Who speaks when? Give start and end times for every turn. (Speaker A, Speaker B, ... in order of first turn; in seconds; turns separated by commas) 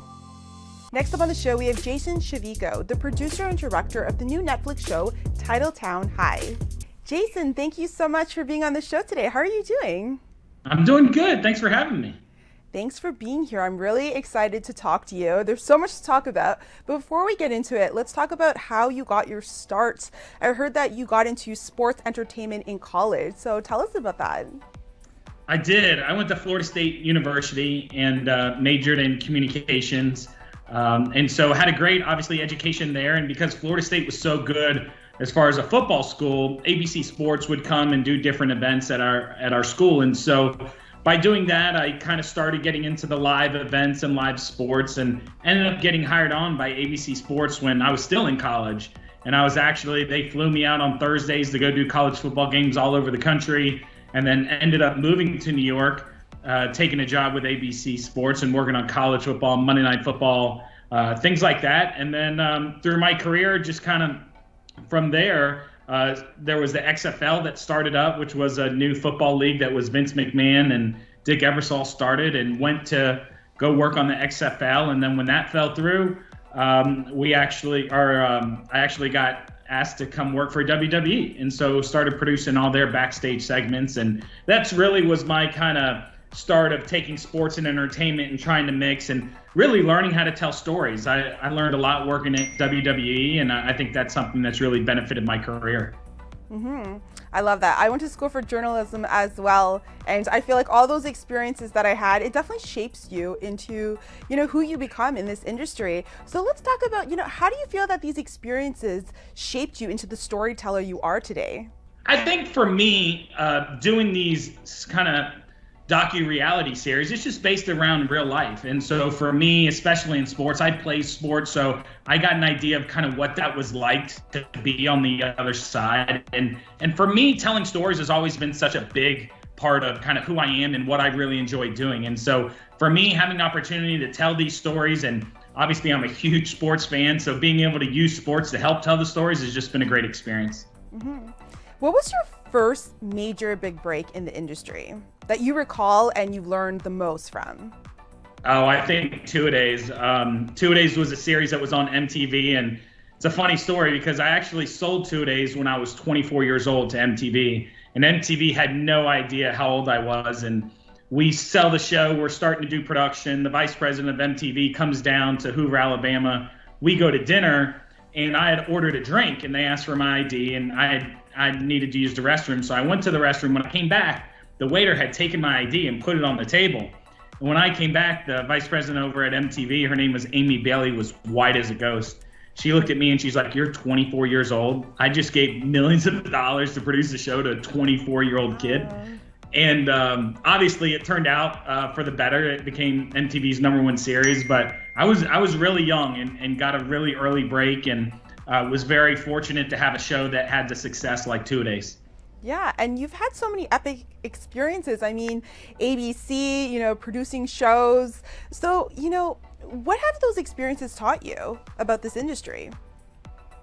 Speaker A: 0.9-10.2, Speaker B: 10.7-12.2, Speaker A: 12.7-24.5, Speaker B: 25.5-64.3, Speaker B: 64.8-96.0, Speaker A: 96.5-111.7, Speaker B: 112.0-140.7, Speaker A: 140.9-147.7, Speaker B: 148.4-188.9, Speaker A: 188.5-189.2, Speaker B: 189.5-202.0, Speaker A: 202.4-212.7